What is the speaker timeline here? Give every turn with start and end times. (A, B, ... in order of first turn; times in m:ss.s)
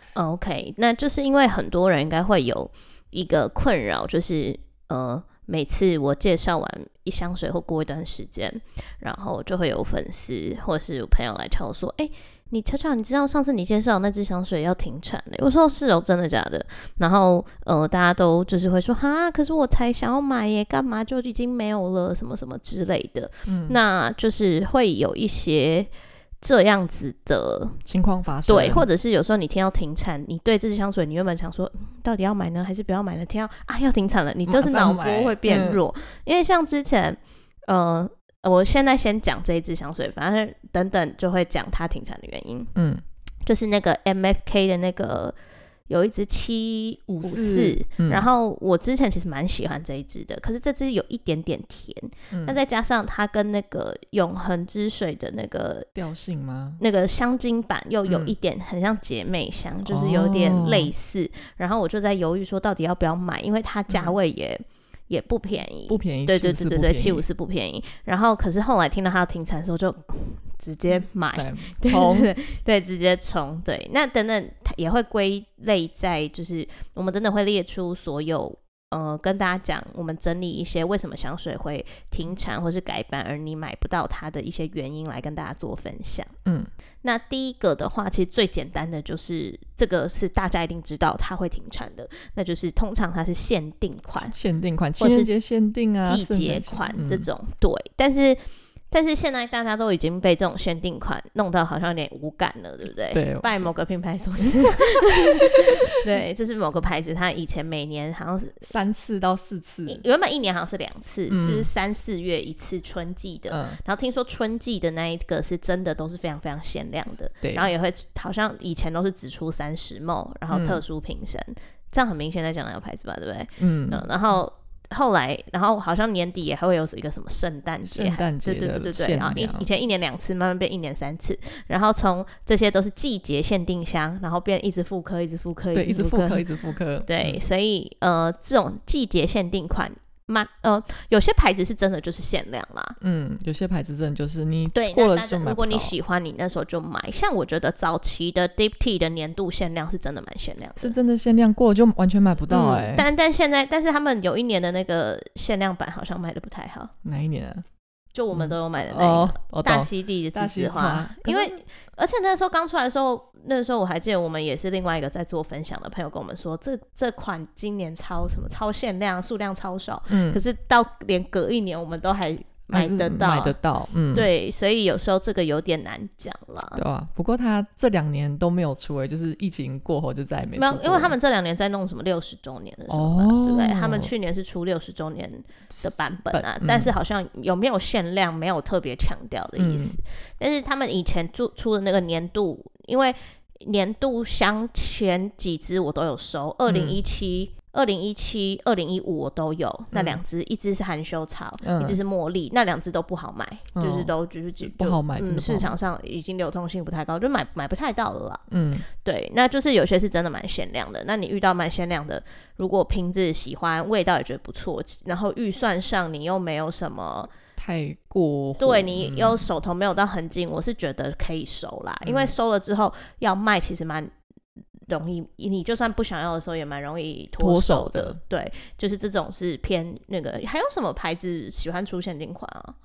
0:00.1-0:25.9 A
0:23.5-0:23.8 B
0:26.4-0:27.8 A
0:27.8-0:28.8 B
0:28.5-0:42.7 A
0:34.5-0:35.8 B
0:42.7-0:43.0 B
0:43.4-0:45.4 A
0:45.9-0:55.9 A
0:47.1-0:48.3 B
0:52.3-0:52.6 B
0:55.9-0:56.8 B
0:56.8-1:26.3 A
0:58.1-0:58.3 B
0:59.8-1:00.9 B
1:03.9-1:04.1 B
1:05.9-1:07.2 B
1:11.3-1:12.3 B
1:26.4-1:26.7 B
1:27.0-1:34.4 A
1:34.2-1:37.3 B
1:35.0-1:35.3 A
1:36.0-1:48.7 A
1:43.1-1:43.7 B
1:44.4-1:45.9 B
1:48.6-1:50.0 B
1:49.9-2:16.5 A
1:51.3-1:51.7 B
1:53.5-1:53.8 B
1:57.4-1:57.7 B
2:00.5-2:00.8 B
2:03.6-2:04.1 B
2:07.8-2:09.7 B
2:15.7-2:17.4 B
2:17.0-2:23.0 A
2:23.0-2:25.9 B
2:24.7-2:30.9 A
2:30.8-2:33.1 B
2:32.5-2:36.9 A
2:37.0-2:37.6 B
2:38.1-2:53.6 A
2:38.3-2:41.6 B
2:50.1-2:50.4 B
2:52.7-2:54.3 B
2:54.1-2:56.8 A
2:56.7-3:01.2 B
3:00.6-3:37.3 A
3:02.9-3:04.1 B
3:05.7-3:06.9 B
3:09.6-3:10.0 B
3:16.7-3:17.0 B
3:19.9-3:20.2 B
3:21.6-3:22.0 B
3:23.7-3:24.1 B
3:24.6-3:25.7 B
3:28.5-3:28.9 B
3:37.6-3:39.5 B
3:38.6-3:44.1 A
3:42.0-3:42.3 B
3:44.9-3:52.8 A
3:47.4-3:48.2 B